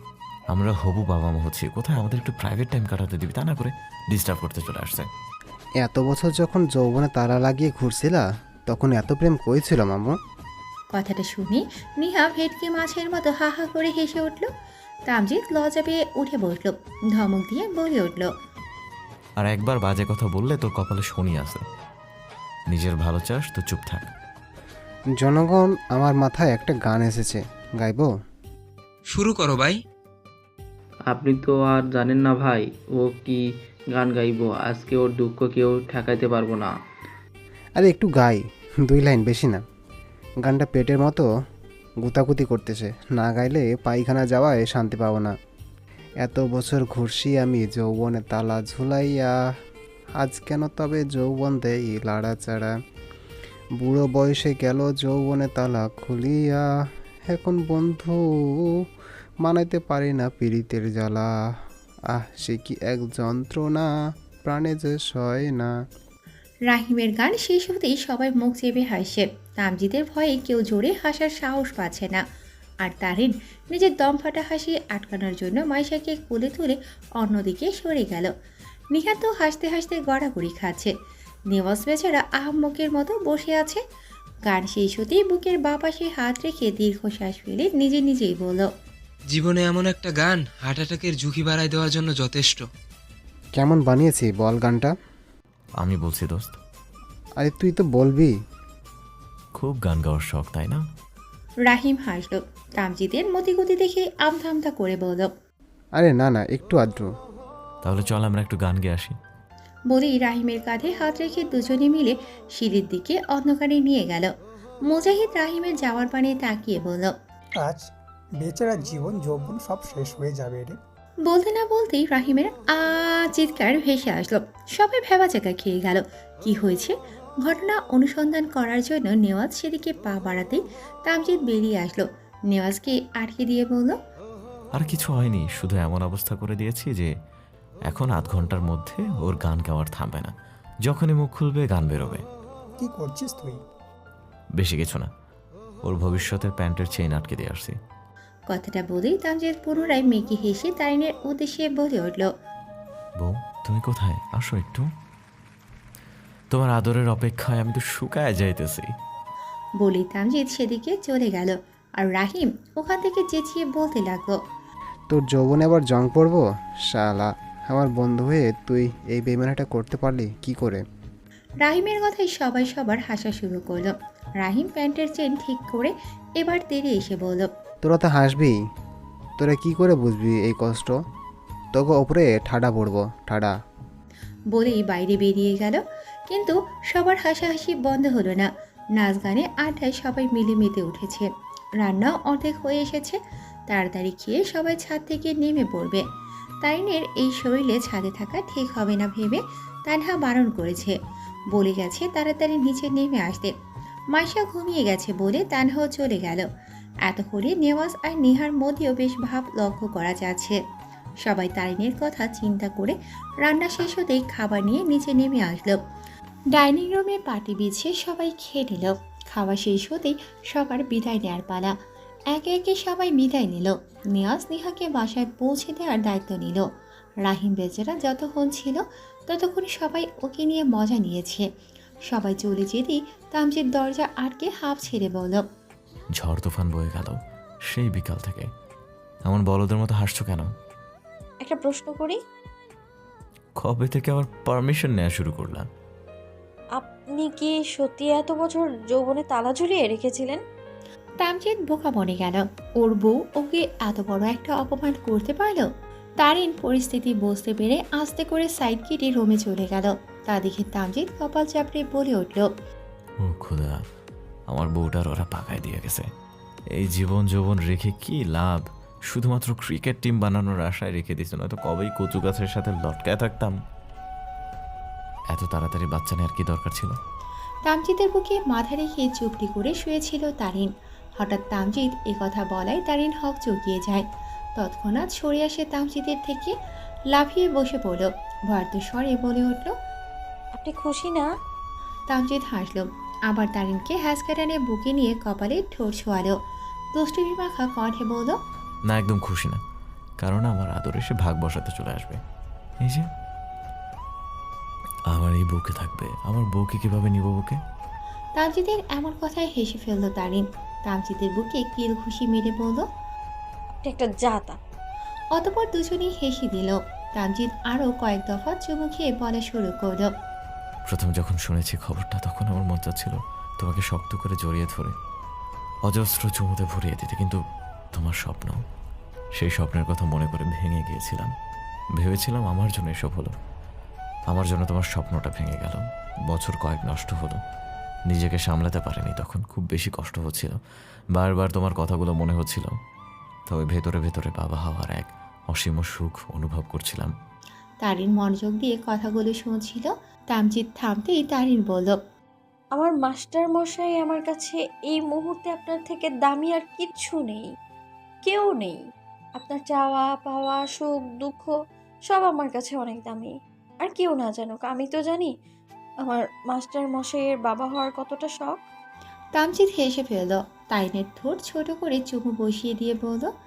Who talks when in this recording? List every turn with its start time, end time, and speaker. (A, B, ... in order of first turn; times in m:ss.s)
0:00.5-0:05.1 A
0:05.8-0:10.2 B
0:10.9-0:14.5 C
0:15.1-0:18.3 C
0:19.4-0:21.6 A
0:22.7-0:24.1 A
0:25.2-0:28.1 B
0:29.1-0:29.8 D
0:31.1-0:36.8 E
0:37.8-0:39.6 B
0:40.4-0:41.2 B
0:42.0-0:45.3 B
0:46.2-0:49.3 B
0:50.2-0:52.7 B
0:53.8-0:56.6 B
0:57.3-0:58.7 B
0:59.4-1:01.3 B
1:02.1-1:03.9 B
1:04.4-1:05.7 B
1:06.7-1:12.2 C
1:12.8-1:18.3 C
1:18.9-1:20.9 C
1:21.5-1:23.8 C
1:24.4-1:28.7 C
1:29.3-1:32.6 D
1:33.6-1:34.9 B
1:35.8-1:36.5 A
1:37.4-1:38.3 B
1:39.5-1:40.8 A
1:41.6-1:45.3 C
1:46.0-1:47.1 B
1:47.8-1:49.1 A
1:49.9-1:54.3 C
1:54.9-1:57.1 C
1:57.6-1:57.8 F
1:58.4-2:00.8 F
2:01.3-2:13.9 C
2:14.7-2:17.1 A
2:17.9-2:20.3 A
2:20.8-2:22.2 A
2:22.8-2:23.6 F
2:24.6-2:25.1 A
2:25.8-2:27.8 A
2:28.5-2:32.3 C
2:33.2-2:34.8 A
2:36.5-2:38.9 A
2:39.8-2:44.4 C
2:45.1-2:50.8 B
2:51.6-2:57.5 C
2:57.8-2:58.5 B
2:59.4-3:00.9 B
3:01.7-3:03.5 B
3:04.5-3:11.3 C
3:11.8-3:13.2 C
3:13.7-3:16.0 C
3:16.6-3:20.9 C
3:21.5-3:23.5 C
3:24.1-3:26.4 C
3:27.0-3:30.6 C
3:31.2-3:35.8 C
3:36.5-3:41.7 C
3:42.3-3:46.6 C
3:47.2-3:51.4 C
3:52.1-3:55.4 C
3:56.2-3:57.2 A
3:57.7-3:58.5 A
3:59.2-4:00.5 A
4:01.4-4:02.2 G
4:03.6-4:05.6 A
4:06.8-4:10.4 G
4:11.2-4:15.7 C
4:16.2-4:22.5 C
4:23.2-4:23.8 A
4:24.5-4:26.1 A
4:26.8-4:33.6 A
4:35.3-4:37.0 A
4:37.6-4:44.0 C
4:44.6-4:46.5 C
4:47.1-4:49.7 C
4:50.6-4:51.3 G
4:52.1-4:56.3 C
4:56.9-4:58.4 C
4:58.9-4:59.6 A
5:00.2-5:02.2 A
5:05.1-5:07.6 A
5:08.4-5:12.8 C
5:13.8-5:14.6 G
5:15.3-5:20.1 C
5:20.9-5:24.9 A
5:25.8-5:27.4 A
5:27.9-5:28.6 A
5:29.4-5:31.3 A
5:32.0-5:33.3 A
5:34.3-5:37.4 A
5:38.1-5:40.6 A
5:41.1-5:42.7 A
5:43.5-5:47.1 A
5:47.8-5:52.0 C
5:52.7-5:57.5 G
5:58.2-5:58.8 G
5:59.4-6:01.5 G
6:02.1-6:05.3 G
6:06.0-6:08.6 G
6:09.4-6:13.3 C